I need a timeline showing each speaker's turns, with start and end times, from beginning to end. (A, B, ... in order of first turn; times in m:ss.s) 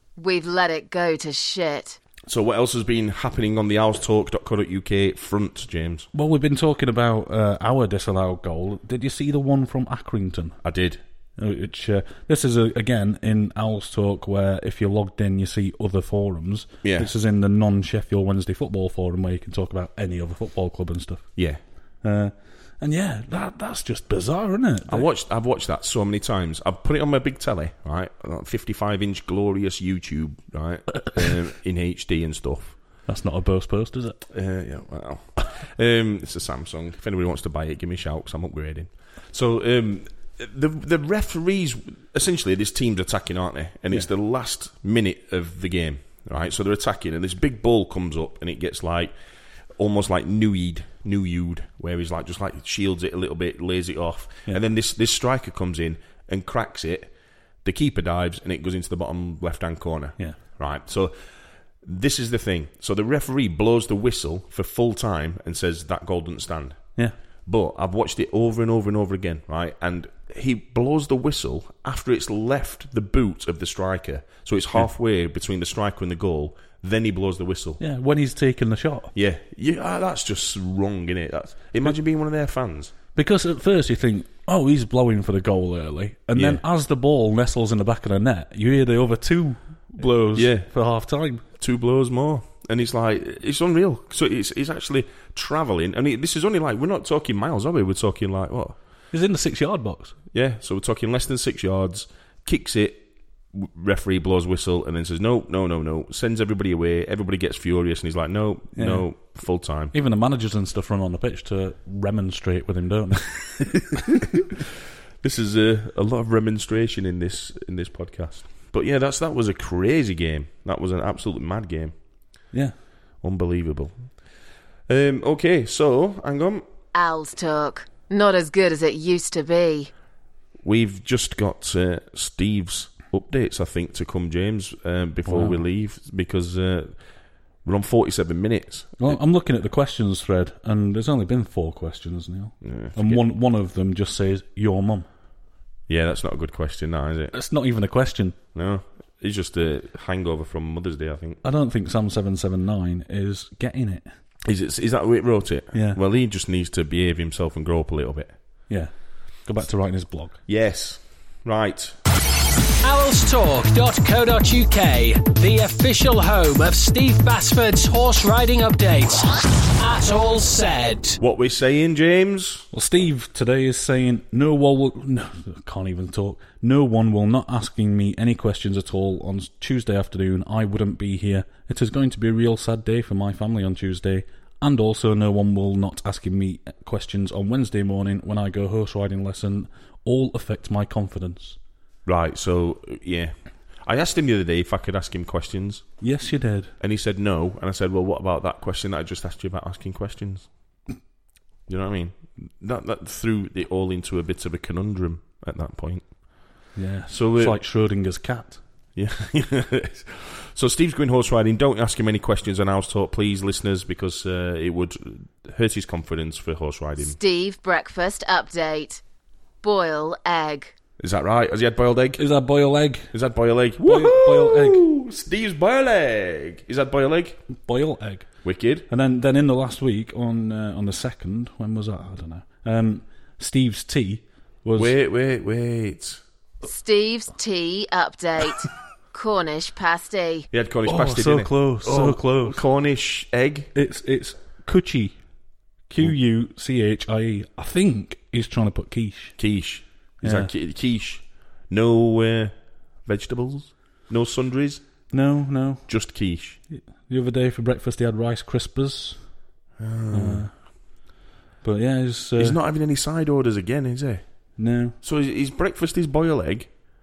0:00.2-0:02.0 A
0:02.2-0:06.1 B
0:06.1-0:10.6 C
0:10.6-0:11.0 B
0:11.4-0:21.3 C
0:16.8-0:17.1 B
0:21.4-0:21.6 B
0:22.0-0:25.1 C
0:24.9-0:32.8 B
0:33.1-0:34.2 C
0:34.3-0:49.1 B
0:49.7-0:57.1 B
0:57.6-1:01.2 B
1:01.8-1:06.9 B
1:07.4-1:17.8 B
1:17.8-1:19.1 C
1:19.1-1:22.9 B
1:23.1-1:31.4 C
1:26.3-1:26.6 B
1:30.3-1:30.7 B
1:31.6-1:38.8 B
1:39.1-1:40.1 C
1:40.3-1:49.9 B
1:48.7-1:49.1 C
1:49.9-1:54.0 C
1:55.2-2:01.9 B
2:03.2-2:04.2 B
2:04.9-2:06.6 B
2:06.9-2:09.9 A
2:10.6-2:17.0 B
2:15.2-2:15.6 C
2:17.6-2:19.2 B
2:19.0-2:25.1 C
2:22.6-2:23.2 B
2:25.9-2:27.3 B
2:27.3-2:28.4 C
2:28.5-2:31.4 B
2:31.4-2:34.1 C
2:34.4-2:38.4 B
2:35.7-2:36.0 C
2:38.7-2:40.4 C
2:40.5-2:42.0 B
2:42.8-2:51.2 D
2:51.2-2:52.7 B
2:52.7-3:11.6 C
3:12.0-3:15.9 B
3:16.0-3:16.7 C
3:16.8-3:20.5 B
3:21.7-3:27.6 B
3:26.7-3:28.6 C
3:29.0-3:37.2 B
3:37.0-3:39.0 A
3:39.6-3:40.7 A
3:41.0-3:42.2 B
3:42.2-3:43.1 C
3:43.1-3:47.4 B
3:43.8-3:44.8 C
3:47.5-3:48.3 C
3:48.4-3:48.8 B
3:48.9-3:54.9 C
3:54.7-3:56.2 B
3:56.6-4:00.5 A
4:00.5-4:03.7 B
4:00.9-4:02.6 C
4:03.7-4:05.2 C
4:05.9-4:09.4 C
4:09.4-4:14.8 B
4:10.2-4:10.5 C
4:15.1-4:15.9 C
4:15.9-4:16.6 B
4:16.7-4:19.2 C
4:19.8-4:20.5 B
4:20.1-4:20.5 C
4:21.6-4:22.6 C
4:22.4-4:24.4 B
4:24.6-4:24.9 C
4:25.0-4:26.7 B